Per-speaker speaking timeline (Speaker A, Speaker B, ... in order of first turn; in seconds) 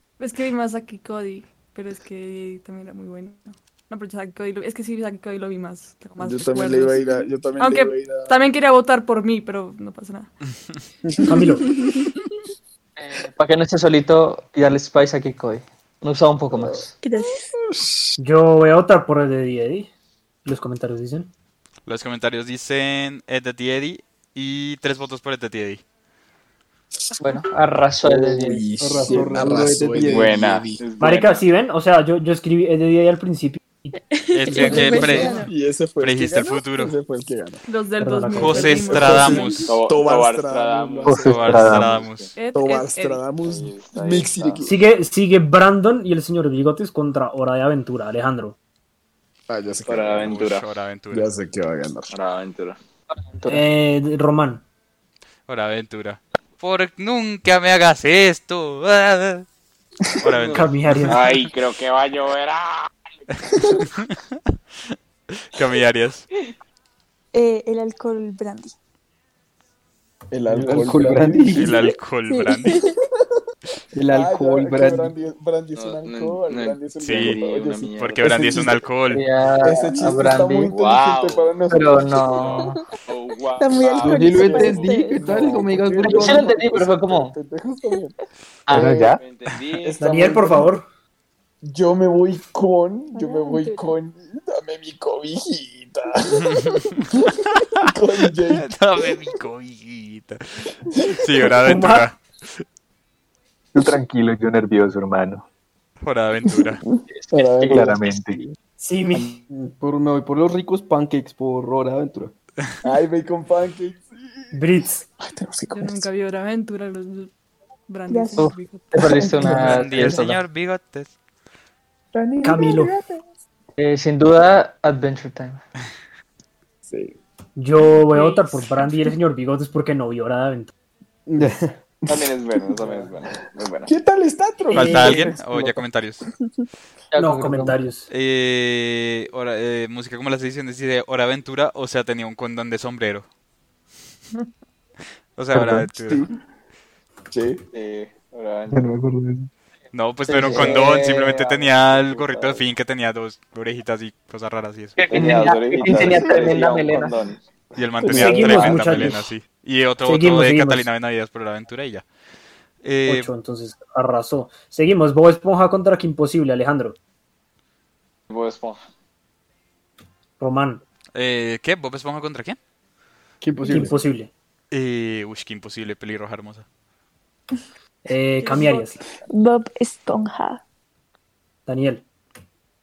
Speaker A: 0.2-10.3, 27.2-27.5, 34.6-35.5, 37.7-39.7, 42.4-43.3, 115.7-117.3, 117.9-118.9, 128.1-128.6, 178.4-178.9
Speaker B: 6.2-8.4, 16.5-16.8, 17.7-18.1, 28.0-30.8, 35.4-37.6, 38.9-44.7, 49.5-50.4, 51.1-52.1, 70.3-71.9, 74.1-78.8, 79.6-82.6, 84.1-88.2, 89.8-90.7, 91.6-99.0, 101.1-101.5, 107.3-108.0, 112.8-116.1, 119.2-120.3, 122.1-123.3, 126.9-127.2, 132.1-133.0, 133.9-135.8, 146.0-146.3, 147.3-147.6, 155.9-156.5, 158.0-159.0
Speaker C: 11.1-11.4, 28.6-30.4, 70.5-71.7, 73.9-75.1, 84.0-86.6, 109.5-112.3, 131.3-131.8, 173.4-174.0
Speaker D: 11.3-11.6, 18.2-19.9, 20.4-21.3, 31.0-33.6, 38.0-39.0, 44.6-48.6, 53.5-54.6, 60.5-61.4, 90.0-90.8, 101.6-102.1, 108.8-109.4, 114.5-115.1, 122.4-122.9, 127.6-130.7, 134.7-135.3, 137.2-138.1, 158.1-159.3, 160.1-160.9, 163.1-167.0, 170.4-170.8, 173.7-174.3, 178.1-179.0, 181.7-182.0
Speaker E: 11.7-12.1, 17.0-17.5, 33.9-35.5, 67.3-68.8, 71.8-73.0, 79.9-80.1, 83.6-85.6, 93.1-94.0, 106.6-107.0, 118.1-118.5, 119.1-119.5, 179.3-180.6
Speaker F: 13.0-16.9, 27.2-28.7, 53.1-53.6, 79.1-80.7, 81.7-82.8, 86.0-87.4, 88.7-89.1, 107.1-108.3, 118.4-120.4, 123.8-125.6, 137.1-137.8, 150.3-150.8, 155.0-157.2
Speaker G: 21.9-25.8, 34.3-35.4, 36.0-37.0, 38.3-39.7, 41.1-42.3, 50.1-51.3, 55.5-59.5, 60.2-61.1, 63.3-64.2, 65.3-66.3, 71.5-72.8, 77.0-77.4, 78.0-79.2, 96.3-97.9, 98.5-102.6, 106.0-106.8, 119.4-121.1, 134.7-136.3, 138.1-143.3, 145.4-146.3, 149.9-155.0, 157.8-162.1, 162.8-163.3, 171.2-172.6, 174.7-176.7
Speaker H: 30.0-31.4, 39.7-42.3, 43.4-44.6, 49.9-50.7, 52.1-52.8, 60.3-62.9, 75.8-78.6, 80.7-81.6, 82.3-84.8, 89.2-90.6, 132.1-133.9, 147.7-148.8, 150.5-152.6, 155.1-157.4, 158.4-159.0, 168.3-168.8
Speaker I: 41.1-42.0, 88.7-89.2, 103.7-105.5, 107.7-108.4, 145.5-145.9, 148.7-149.5